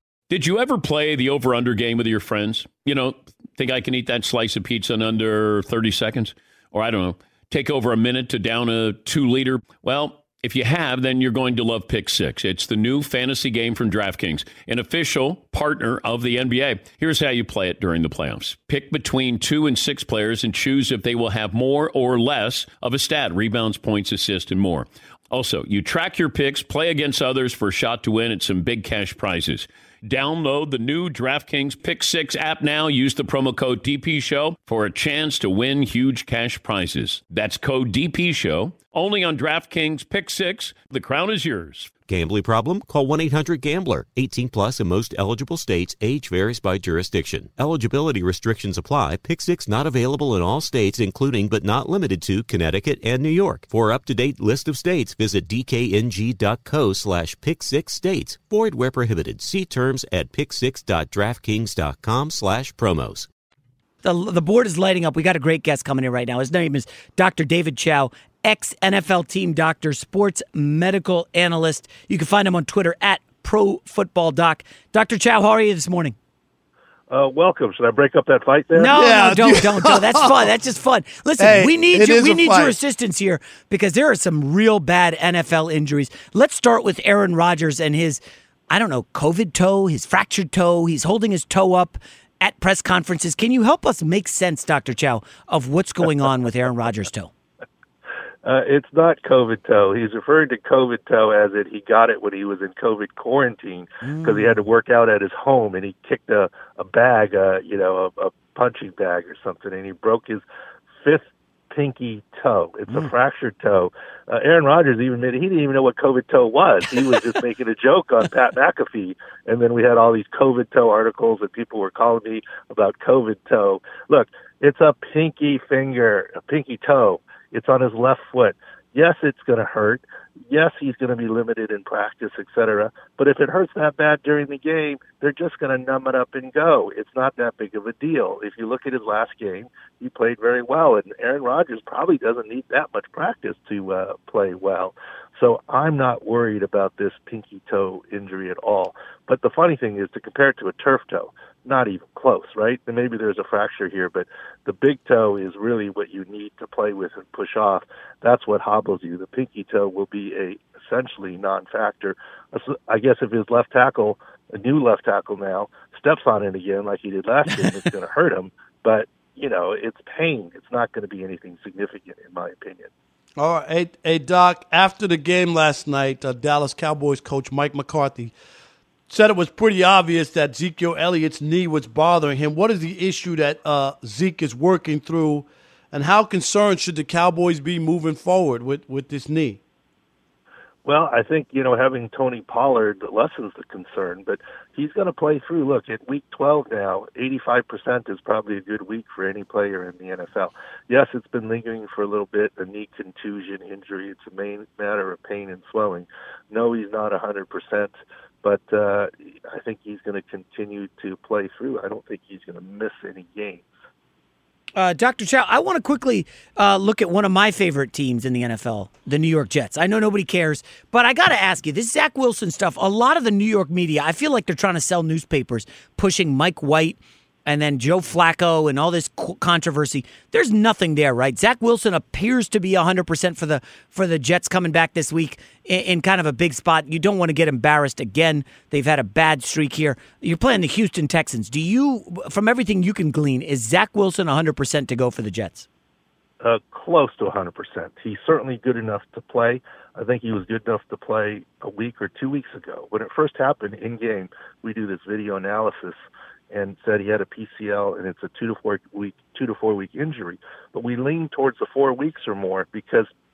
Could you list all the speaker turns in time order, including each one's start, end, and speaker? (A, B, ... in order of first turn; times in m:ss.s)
0:00.3-0:41.9 A
0:42.1-1:03.3 B
1:04.0-1:16.1 C
1:17.1-1:19.0 D
1:18.7-1:37.3 C
1:18.9-1:20.3 E
1:21.4-1:22.7 E
1:38.4-1:50.4 D
1:44.0-1:44.6 C
1:51.0-2:52.9 D
2:53.4-2:58.3 E
2:59.1-3:09.6 E
3:10.8-3:33.6 D
3:34.7-4:05.7 C
4:06.4-4:23.1 D